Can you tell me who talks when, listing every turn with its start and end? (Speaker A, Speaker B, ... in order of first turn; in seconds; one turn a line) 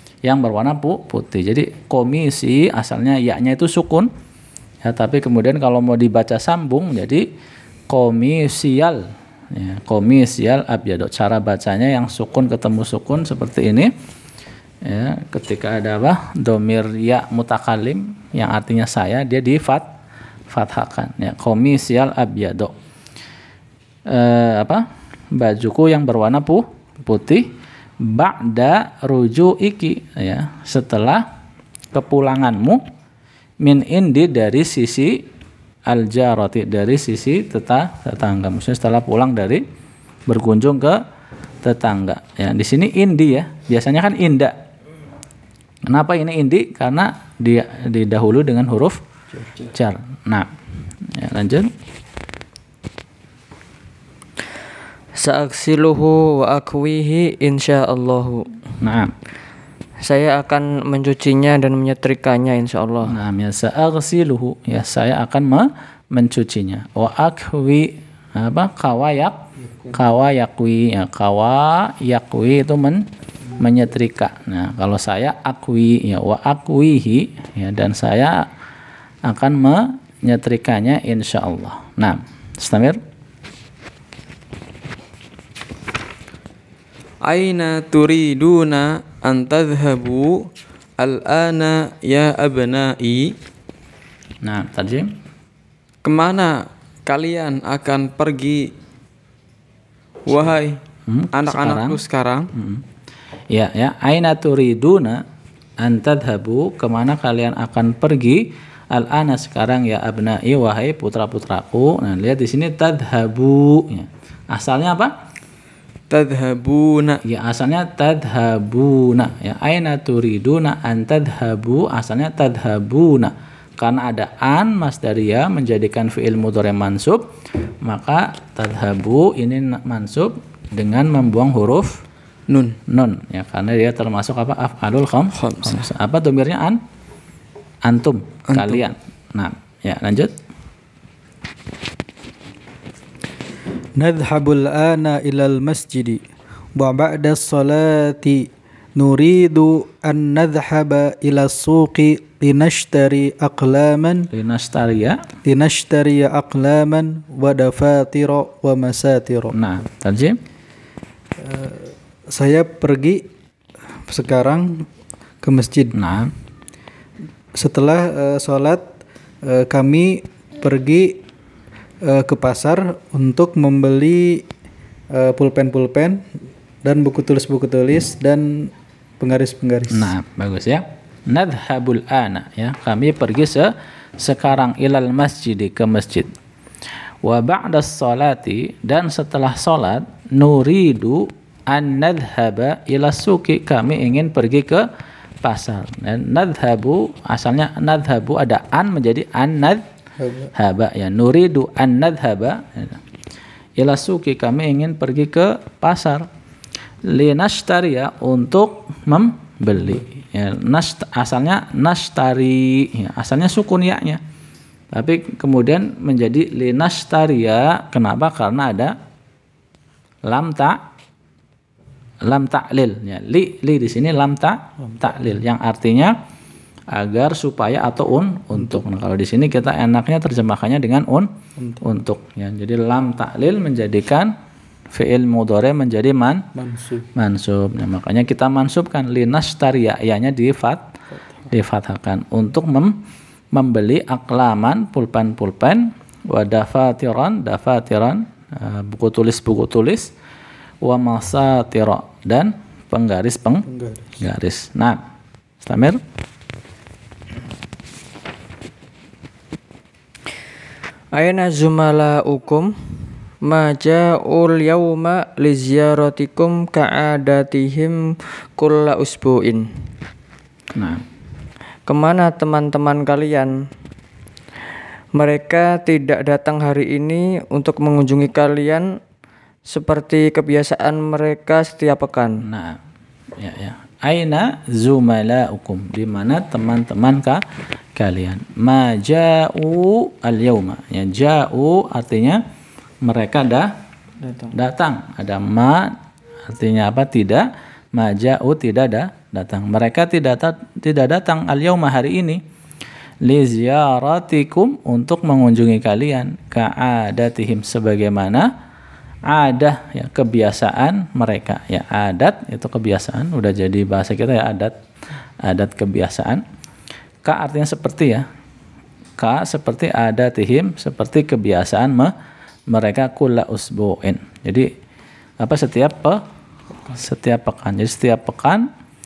Speaker A: 0.2-4.1
Speaker A: 4.8-7.2
Speaker A: 7.9-13.9
Speaker A: 14.8-19.9
Speaker A: 20.5-22.7
Speaker A: 24.1-24.8
Speaker A: 25.3-31.2
Speaker A: 31.9-32.8
Speaker A: 33.6-35.2
Speaker A: 35.9-39.6
Speaker A: 40.3-41.0
Speaker A: 41.6-44.5
Speaker A: 45.9-49.0
Speaker A: 49.6-50.5
Speaker A: 51.1-51.7
Speaker B: 55.1-58.5
Speaker A: 58.8-59.1
Speaker B: 60.0-63.2
Speaker A: 63.1-69.4
Speaker A: 69.9-73.0
Speaker A: 73.6-78.5
Speaker A: 79.2-83.0
Speaker C: 87.2-93.3
Speaker A: 94.4-95.1
Speaker C: 96.0-98.7
Speaker C: 100.3-100.7
Speaker A: 101.1-102.0
Speaker C: 101.3-102.5
Speaker A: 102.5-102.8
Speaker A: 103.5-105.2
Speaker A: 105.8-115.1
Speaker C: 116.1-117.2
Speaker A: 117.2-127.2
Speaker A: 127.8-132.0
Speaker C: 132.5-132.8
Speaker A: 132.9-136.8
Speaker C: 135.3-135.9
Speaker A: 137.8-140.3
Speaker C: 138.5-138.8
Speaker D: 144.0-146.2
Speaker D: 146.8-154.3
Speaker A: 154.3-155.2
Speaker D: 155.4-159.5
Speaker A: 159.5-160.4
Speaker D: 161.4-163.2
Speaker D: 164.1-164.9
Speaker D: 165.4-165.9
Speaker A: 165.9-166.3
Speaker D: 167.5-171.2
Speaker D: 172.0-174.4
Speaker D: 175.1-176.3
Speaker D: 176.8-180.1
Speaker A: 179.9-186.3
Speaker A: 187.2-194.8
Speaker A: 195.4-199.8
Speaker D: 200.2-200.5
Speaker A: 200.5-203.0
Speaker A: 203.8-206.3
Speaker A: 207.1-214.2
Speaker A: 214.9-218.9
Speaker A: 220.2-220.8
Speaker A: 222.2-226.1
Speaker A: 226.9-231.3
Speaker A: 231.8-234.3
Speaker A: 234.9-236.4
Speaker D: 236.5-237.1
Speaker A: 237.1-240.8
Speaker A: 241.5-243.0
Speaker A: 243.5-250.1
Speaker A: 250.8-253.7
Speaker D: 253.7-254.1
Speaker A: 254.2-255.0
Speaker A: 255.6-256.0
Speaker B: 261.1-269.9
Speaker A: 270.7-271.0
Speaker B: 271.9-273.7
Speaker B: 275.1-279.0
Speaker B: 279.6-282.4
Speaker A: 282.4-282.8
Speaker A: 283.4-287.4
Speaker A: 287.9-292.4
Speaker A: 293.0-293.7
Speaker A: 294.5-295.9
Speaker A: 296.5-302.4
Speaker A: 303.2-308.5
Speaker A: 309.3-314.7
Speaker A: 315.4-316.4
Speaker A: 317.2-318.3
Speaker A: 319.2-322.1
Speaker A: 322.7-324.7
Speaker A: 325.4-326.2
Speaker A: 326.9-328.6